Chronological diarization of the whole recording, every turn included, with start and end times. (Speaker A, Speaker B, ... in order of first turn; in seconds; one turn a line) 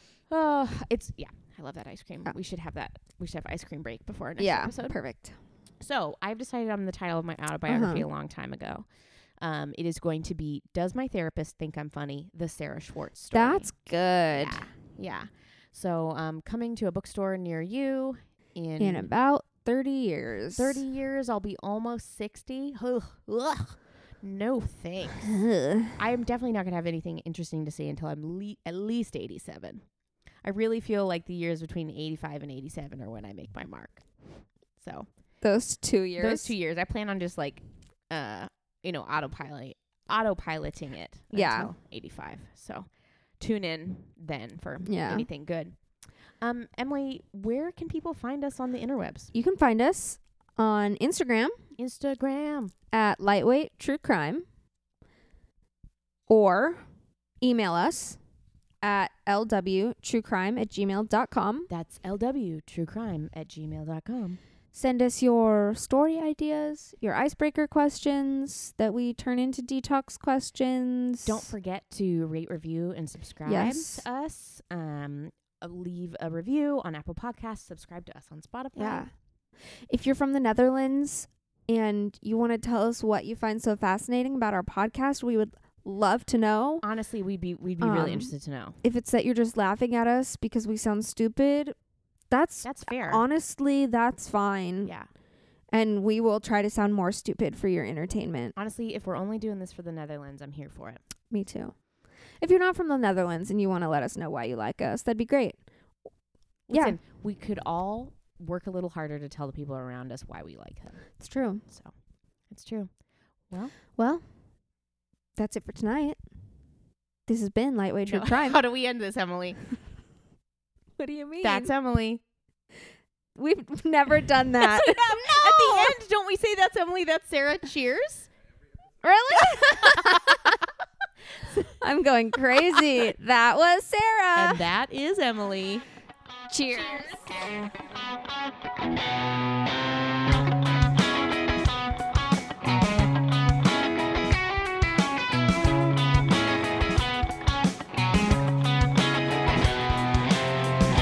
Speaker A: 0.3-5.0
Speaker B: 4.4-5.3
Speaker A: 5.8-8.9
Speaker B: 7.7-8.0
Speaker A: 9.4-13.7
Speaker B: 13.3-14.6
Speaker A: 14.3-19.1
Speaker B: 18.8-20.8
Speaker A: 20.6-25.3
Speaker B: 25.2-26.0
Speaker A: 26.0-29.8
Speaker A: 30.4-35.1
Speaker B: 35.4-36.5
Speaker A: 36.2-42.9
Speaker B: 41.3-41.7
Speaker A: 43.4-45.8
Speaker B: 44.9-45.2
Speaker A: 46.4-49.3
Speaker B: 49.3-51.5
Speaker A: 51.8-52.7
Speaker B: 52.9-54.5
Speaker B: 56.3-56.8
Speaker B: 57.4-58.2
Speaker B: 58.8-61.7
Speaker A: 61.7-64.4
Speaker B: 64.7-71.5
Speaker A: 71.2-79.0
Speaker B: 73.4-74.0
Speaker B: 78.8-79.1
Speaker B: 79.9-86.8
Speaker A: 86.8-88.8
Speaker B: 87.8-88.3
Speaker B: 88.8-91.7
Speaker B: 92.3-94.9
Speaker A: 92.6-93.2
Speaker B: 95.7-98.5
Speaker A: 98.5-101.0
Speaker B: 101.3-101.7
Speaker B: 102.4-105.6
Speaker A: 106.7-111.0
Speaker B: 106.7-107.0
Speaker B: 111.2-111.6
Speaker A: 112.5-112.9
Speaker B: 114.0-114.2
Speaker B: 115.4-116.2
Speaker B: 117.3-118.6
Speaker A: 118.1-119.6
Speaker B: 121.0-121.7
Speaker A: 121.4-122.2
Speaker B: 123.3-125.9
Speaker A: 124.6-128.3
Speaker B: 129.0-130.6
Speaker A: 129.5-130.5
Speaker A: 131.4-131.7
Speaker B: 131.8-134.6
Speaker A: 134.3-135.8
Speaker B: 136.5-137.2
Speaker A: 136.8-137.2